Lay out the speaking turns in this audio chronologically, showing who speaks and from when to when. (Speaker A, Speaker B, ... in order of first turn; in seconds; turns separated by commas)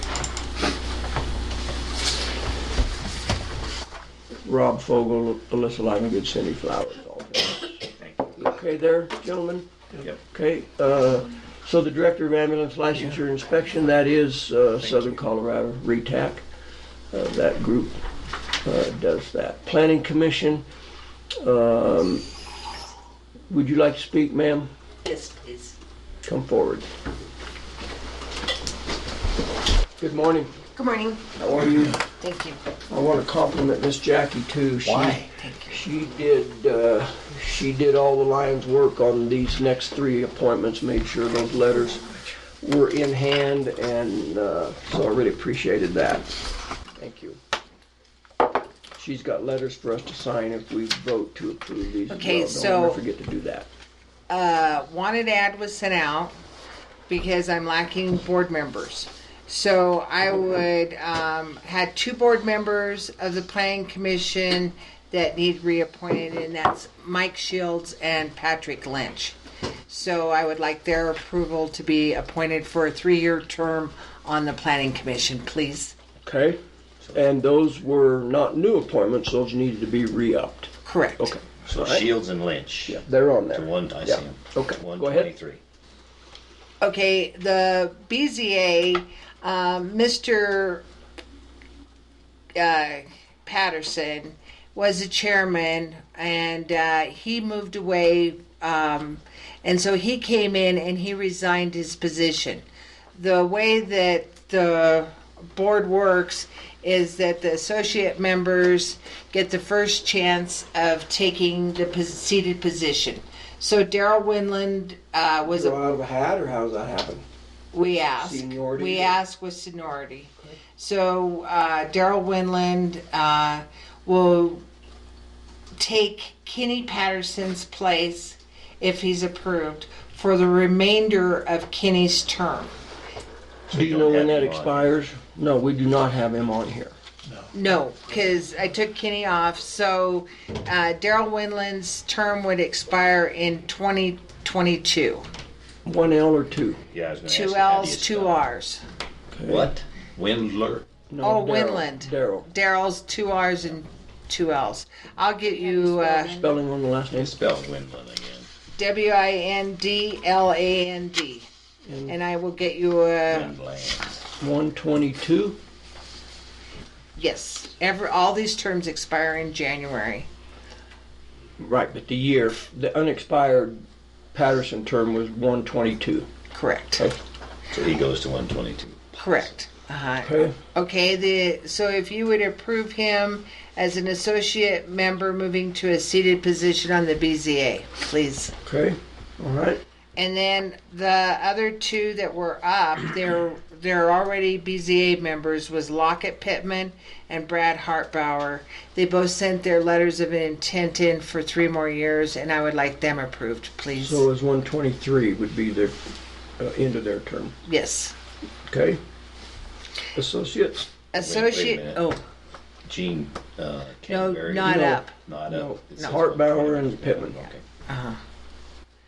Speaker A: 4.4-7.8, Speaker B: 7.9-8.4, Speaker A: 8.4-9.7, Speaker A: 10.2-16.4, Speaker A: 17.1-18.0, Speaker A: 18.6-20.6, Speaker A: 21.4-22.2, Speaker A: 23.5-24.7, Speaker C: 25.0-25.7, Speaker A: 26.2-26.9, Speaker A: 30.0-30.5, Speaker C: 30.7-31.2, Speaker A: 31.4-32.0, Speaker C: 32.2-32.6, Speaker A: 32.9-46.3, Speaker B: 34.8-35.3, Speaker C: 35.4-35.8, Speaker A: 47.0-47.4, Speaker A: 49.0-53.7, Speaker C: 52.1-53.0, Speaker C: 54.3-56.3, Speaker C: 57.1-69.3, Speaker C: 69.9-75.9, Speaker A: 76.2-76.6, Speaker B: 77.0-77.2, Speaker A: 77.1-82.0, Speaker C: 80.8-81.3, Speaker B: 81.7-85.6, Speaker A: 82.9-85.3, Speaker C: 86.8-90.8, Speaker C: 92.5-102.6, Speaker C: 103.2-115.8, Speaker A: 115.4-117.2, Speaker C: 117.7-124.6, Speaker A: 118.2-119.2, Speaker C: 125.8-132.7, Speaker B: 133.7-135.0, Speaker A: 133.7-136.9, Speaker C: 137.5-145.2, Speaker A: 145.8-146.8, Speaker B: 146.9-148.4, Speaker C: 147.3-148.8, Speaker A: 149.3-149.7, Speaker B: 149.4-150.8, Speaker A: 151.1-152.5, Speaker C: 151.2-156.6, Speaker A: 155.7-157.3, Speaker B: 157.1-158.5, Speaker C: 158.8-161.5, Speaker A: 161.8-162.2, Speaker C: 162.1-163.5, Speaker B: 163.3-164.2, Speaker A: 164.4-165.6, Speaker C: 167.2-170.3, Speaker A: 171.6-173.8, Speaker A: 174.3-176.3, Speaker C: 176.5-177.0, Speaker B: 177.7-179.2, Speaker C: 179.1-188.5, Speaker A: 180.2-180.6, Speaker A: 188.6-189.8, Speaker C: 190.2-204.2, Speaker A: 203.9-206.0, Speaker A: 206.6-207.6, Speaker C: 207.6-208.1, Speaker A: 208.7-209.0, Speaker A: 210.1-210.9, Speaker C: 211.1-212.2, Speaker B: 211.2-212.1, Speaker B: 212.9-217.6, Speaker C: 214.1-215.2, Speaker A: 214.6-217.4, Speaker C: 217.9-218.2